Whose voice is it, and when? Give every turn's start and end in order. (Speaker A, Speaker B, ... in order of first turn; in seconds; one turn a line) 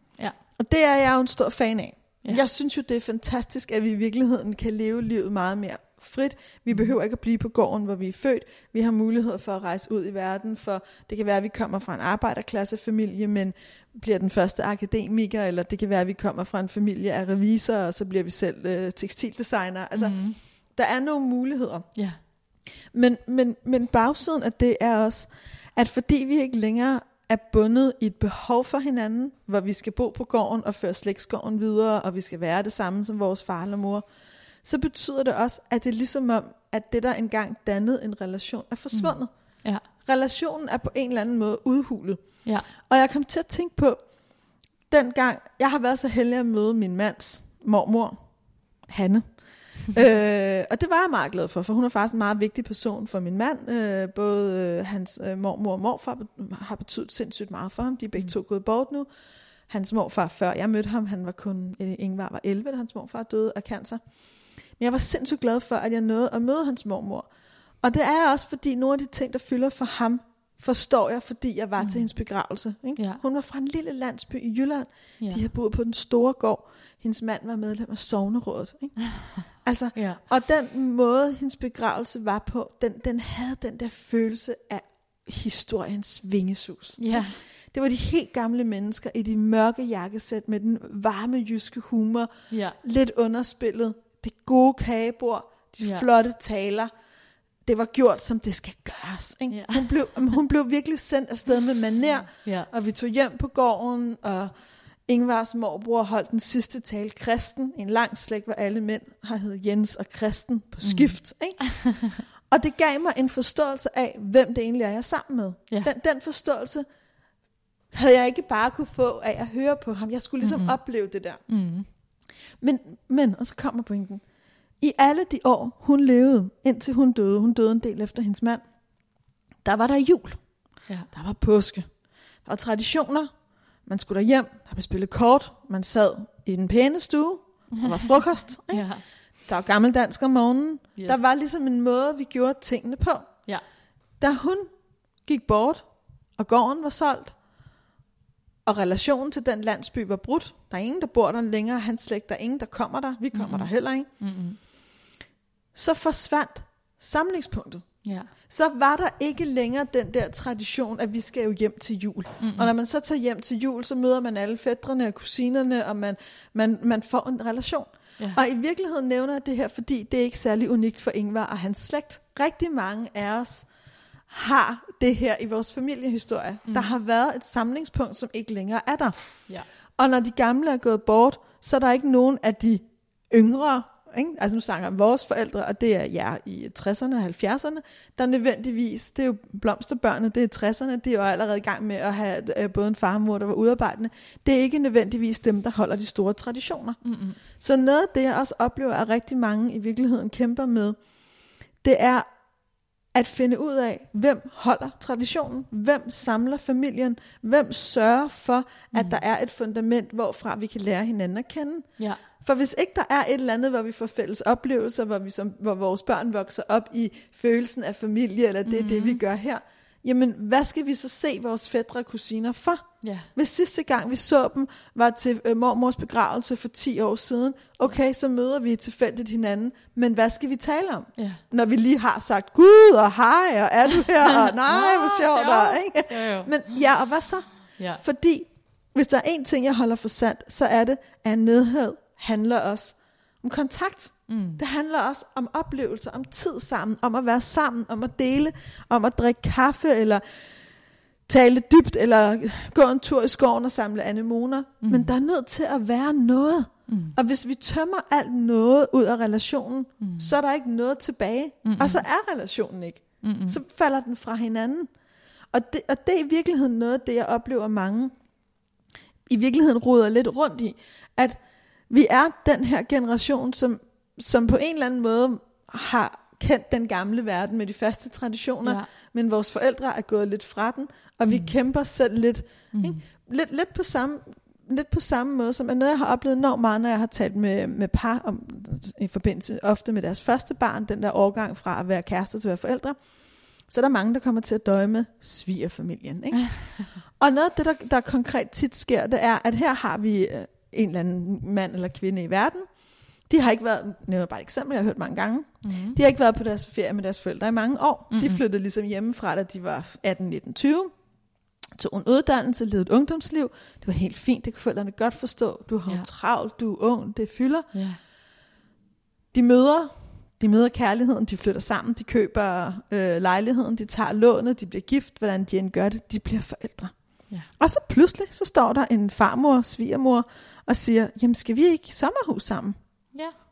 Speaker A: 0.6-20.2
Speaker B: 6.7-7.0
Speaker B: 20.0-20.4
Speaker A: 20.8-21.9
Speaker A: 22.9-34.0
Speaker A: 34.6-39.3
Speaker B: 38.9-39.8
Speaker A: 40.0-42.2
Speaker A: 42.9-44.0
Speaker A: 44.9-48.2
Speaker A: 48.9-49.3
Speaker A: 49.9-59.1
Speaker A: 59.7-64.0
Speaker A: 64.8-67.3
Speaker A: 67.8-79.0
Speaker A: 79.6-92.3
Speaker B: 80.0-80.2
Speaker B: 87.0-87.4
Speaker B: 92.5-92.8
Speaker A: 92.8-96.9
Speaker A: 97.7-104.5
Speaker B: 99.5-99.9
Speaker B: 102.4-102.7
Speaker A: 105.1-111.7
Speaker B: 110.8-112.1
Speaker A: 112.5-116.8
Speaker A: 117.9-121.4
Speaker B: 120.4-120.8
Speaker B: 121.5-121.9
Speaker A: 122.6-124.2
Speaker A: 124.8-128.6
Speaker A: 129.6-130.4
Speaker A: 131.1-131.9
Speaker A: 132.4-133.3
Speaker A: 133.9-138.9
Speaker B: 137.8-139.0
Speaker A: 139.5-143.3
Speaker B: 141.0-141.2
Speaker A: 144.2-144.7
Speaker A: 145.2-145.8
Speaker A: 146.4-147.4
Speaker A: 148.7-154.1
Speaker B: 153.3-154.6
Speaker A: 155.7-157.9
Speaker B: 158.0-158.3
Speaker A: 158.5-173.7
Speaker B: 162.4-162.7
Speaker A: 174.3-179.1
Speaker B: 176.7-176.9
Speaker A: 180.0-197.0
Speaker B: 197.0-197.4
Speaker A: 197.6-201.0
Speaker A: 201.8-202.3
Speaker A: 203.1-211.9
Speaker B: 208.9-209.2
Speaker A: 212.4-250.2
Speaker B: 218.7-219.2
Speaker B: 223.0-223.3
Speaker B: 231.2-231.4
Speaker B: 234.4-236.5
Speaker B: 244.3-244.6
Speaker A: 251.3-264.9
Speaker B: 254.8-255.1
Speaker B: 256.9-257.1
Speaker B: 260.0-260.3
Speaker B: 261.6-262.0
Speaker B: 263.2-263.6
Speaker A: 265.5-268.1
Speaker A: 269.3-293.0
Speaker B: 281.3-281.5
Speaker B: 282.7-283.0
Speaker A: 293.7-296.5
Speaker A: 297.2-302.7
Speaker A: 303.3-310.9
Speaker B: 305.6-306.0
Speaker B: 308.1-308.4
Speaker A: 311.8-317.7
Speaker B: 317.7-318.0
Speaker A: 319.3-326.9
Speaker A: 327.6-332.8